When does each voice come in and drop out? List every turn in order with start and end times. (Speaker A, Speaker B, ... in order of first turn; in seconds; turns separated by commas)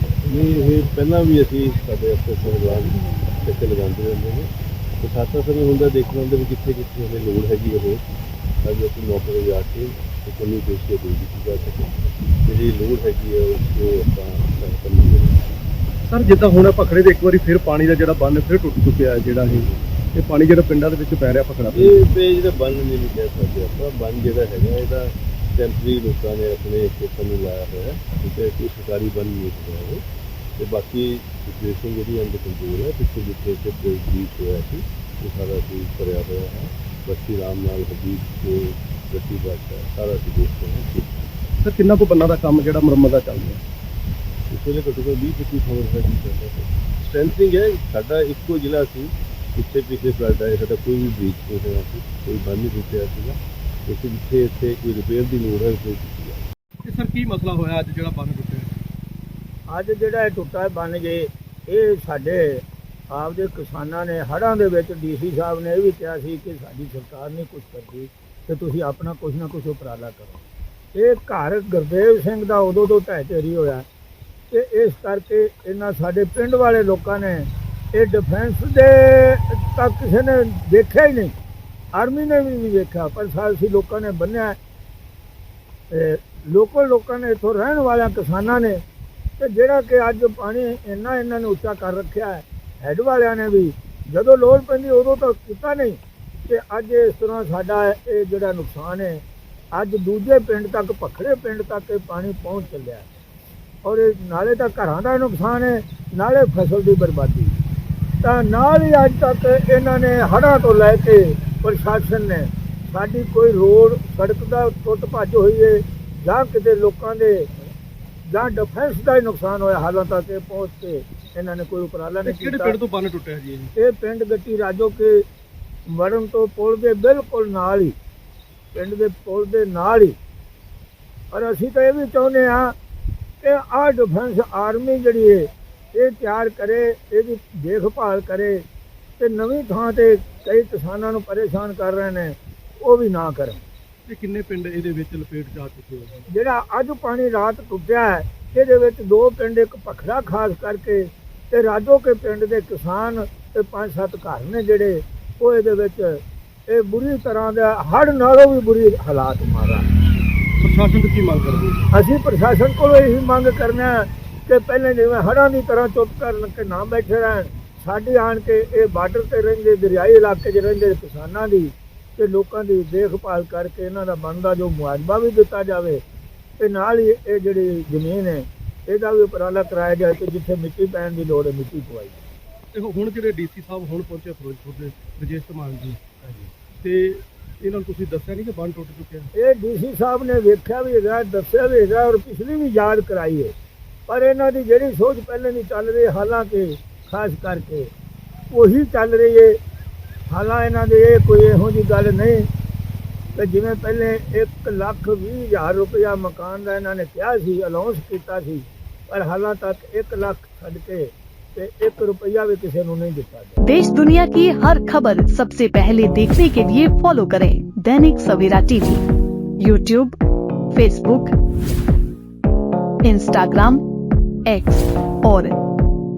Speaker A: 0.2-8.0, Speaker A: 8.6-15.6, Speaker B: 16.1-22.0, Speaker A: 21.7-30.0, Speaker A: 30.6-41.1, Speaker B: 41.6-43.6, Speaker A: 44.5-56.4, Speaker B: 56.8-58.8, Speaker C: 59.7-70.4, Speaker C: 70.9-73.8, Speaker C: 74.5-81.3, Speaker C: 81.9-84.6, Speaker C: 85.9-88.8, Speaker C: 89.4-99.2, Speaker C: 99.7-103.1, Speaker C: 103.8-107.5, Speaker C: 108.2-117.7, Speaker C: 118.3-122.8, Speaker B: 122.2-123.7, Speaker C: 123.8-125.2, Speaker C: 125.9-128.0, Speaker C: 128.7-130.2, Speaker C: 131.3-132.8, Speaker C: 133.4-138.6, Speaker C: 139.2-143.6, Speaker B: 144.1-146.2, Speaker C: 146.3-159.9, Speaker B: 160.6-161.8, Speaker C: 161.9-176.0, Speaker C: 176.6-182.2, Speaker B: 182.7-189.3, Speaker C: 189.3-193.5, Speaker C: 194.1-197.9, Speaker C: 198.5-199.6, Speaker C: 200.3-202.5, Speaker C: 203.3-213.6, Speaker D: 213.6-219.0, Speaker D: 219.6-220.2, Speaker D: 220.7-221.3, Speaker D: 223.0-223.8, Speaker D: 224.4-225.5